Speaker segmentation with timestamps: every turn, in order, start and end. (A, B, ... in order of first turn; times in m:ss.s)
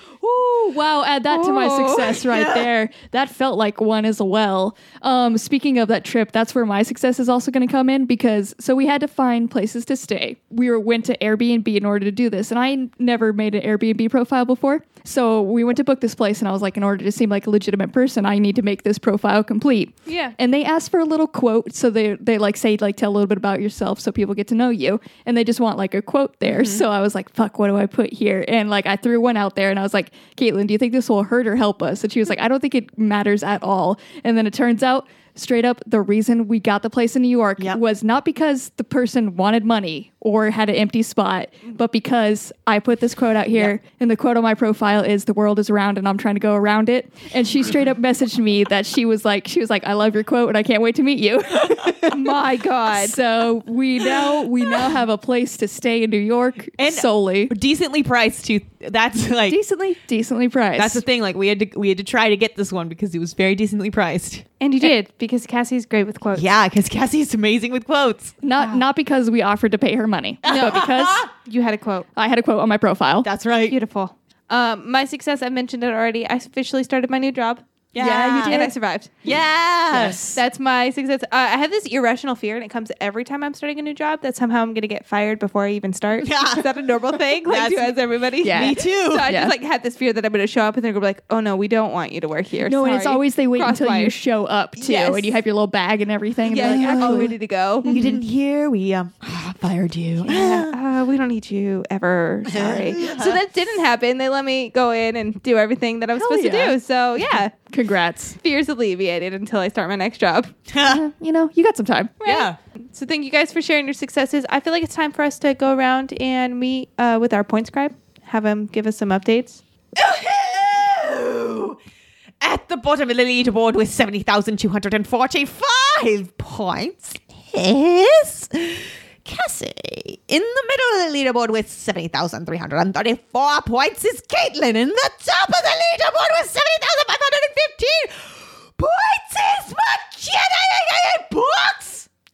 0:00.2-0:57.5 A
0:01.3-0:02.2 B
0:02.2-0:02.7 C
0:20.1-0:20.4 B
0:26.4-0:26.8 C
0:52.1-0:53.2 B
0:56.8-0:59.6 C
0:59.5-1:01.0 A
1:00.8-1:04.4 C
1:04.6-1:06.5 B
1:06.3-1:08.3 C
1:08.4-1:11.3 A
1:08.6-1:08.8 B
1:10.4-1:11.3 C
1:11.4-1:12.1 B
1:12.2-1:13.3 A
1:13.2-1:13.8 C
1:13.7-1:17.6 B
1:17.9-1:18.6 C
1:18.0-1:18.7 A
1:18.4-1:19.1 B
1:19.2-1:20.2 C
1:19.9-1:20.4 A
1:20.3-1:34.2 B
1:26.2-1:26.7 C
1:27.5-1:28.0 C
1:28.4-1:29.5 A
1:28.5-1:29.3 C
1:32.6-1:38.2 A
1:34.8-1:35.4 B
1:36.5-1:37.9 B
1:36.7-1:40.8 C
1:40.3-1:47.5 B
1:42.5-1:43.4 C
1:46.2-1:46.8 A
1:47.7-1:48.4 A
1:48.4-1:50.5 B
1:50.7-1:51.0 C
1:50.8-1:52.2 A
1:52.2-1:59.6 B
1:52.3-1:52.6 C
2:00.0-2:01.8 C
2:02.4-2:22.1 C